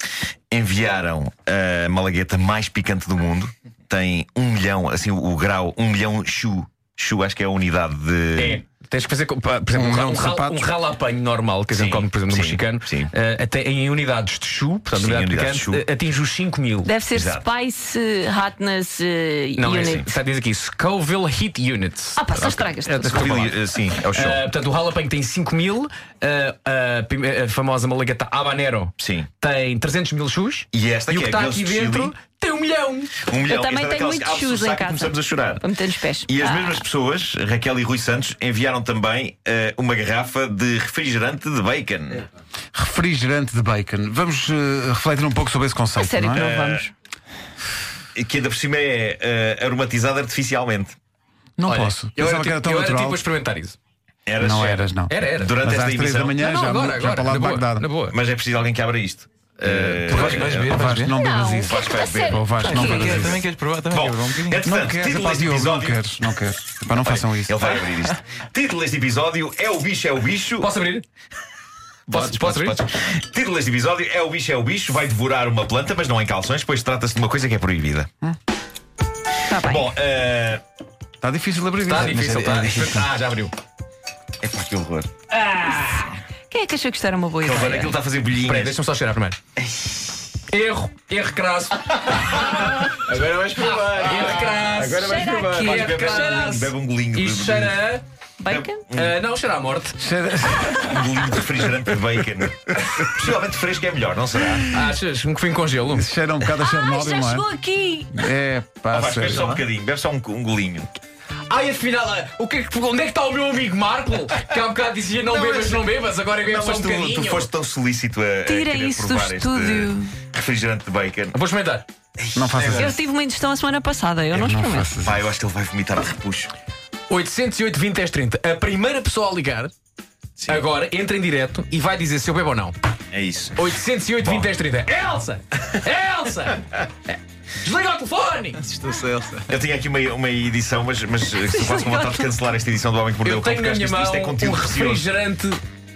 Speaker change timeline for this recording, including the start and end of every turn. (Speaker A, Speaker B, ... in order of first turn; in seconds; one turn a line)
Speaker A: 0.5-8.6
Speaker B: 8.4-16.9
Speaker C: 9.7-10.7
Speaker A: 11.7-13.1
Speaker A: 14.9-15.8
Speaker D: 16.8-20.1
Speaker A: 17.1-17.4
Speaker B: 19.6-33.2
Speaker A: 19.8-20.1
Speaker D: 22.2-23.3
Speaker A: 23.0-24.4
Speaker A: 29.0-29.3
Speaker A: 30.7-32.1
Speaker A: 33.2-35.6
Speaker D: 33.5-36.8
Speaker A: 36.3-42.2
Speaker C: 42.7-46.5
Speaker D: 46.0-46.9
Speaker A: 46.3-46.9
Speaker A: 48.1-51.0
Speaker C: 51.6-53.2
Speaker B: 51.6-53.8
Speaker A: 54.3-56.4
Speaker C: 54.4-57.9
Speaker B: 54.6-55.6
Speaker B: 56.4-58.1
Speaker A: 58.1-60.8
Speaker C: 60.1-61.8
Speaker E: 60.1-61.2
Speaker B: 60.1-60.5
Speaker D: 61.2-63.3
Speaker A: 61.6-63.3
Speaker C: 62.3-63.4
Speaker E: 62.5-64.7
Speaker A: 63.9-66.1
Speaker C: 64.7-67.7
Speaker A: 67.0-70.7
Speaker B: 70.6-71.0
Speaker A: 72.1-78.1
Speaker B: 72.1-72.8
Speaker D: 79.5-79.8
Speaker A: 79.5-80.6
Speaker C: 81.2-82.1
Speaker B: 81.8-83.5
Speaker E: 81.9-83.1
Speaker A: 84.4-85.1
Speaker B: 85.3-86.2
Speaker D: 86.5-87.9
Speaker A: 87.4-88.8
Speaker B: 88.4-89.4
Speaker A: 89.6-90.2
Speaker B: 90.5-98.0
Speaker E: 93.0-95.9
Speaker D: 95.0-96.6
Speaker A: 95.7-97.8
Speaker D: 98.4-98.9
Speaker A: 98.5-99.2
Speaker B: 98.9-100.0
Speaker C: 100.0-101.0
Speaker A: 100.8-104.7
Speaker B: 104.7-106.1
Speaker C: 105.9-107.5
Speaker D: 106.5-108.2
Speaker C: 108.1-109.5
Speaker A: 108.9-110.9
Speaker B: 111.5-117.5
Speaker A: 115.2-115.9
Speaker A: 116.4-121.4
Speaker D: 118.5-120.2
Speaker B: 121.3-121.9
Speaker A: 122.2-123.0
Speaker C: 122.3-123.0
Speaker D: 122.8-124.9
Speaker C: 124.3-125.2
Speaker A: 125.0-126.5
Speaker B: 127.1-129.7
Speaker A: 130.4-130.7
Speaker B: 130.5-132.8
Speaker A: 133.1-134.5
Speaker B: 133.6-138.6
Speaker E: 138.6-139.5
Speaker A: 139.5-145.1
Speaker D: 141.5-142.2
Speaker B: 143.2-145.6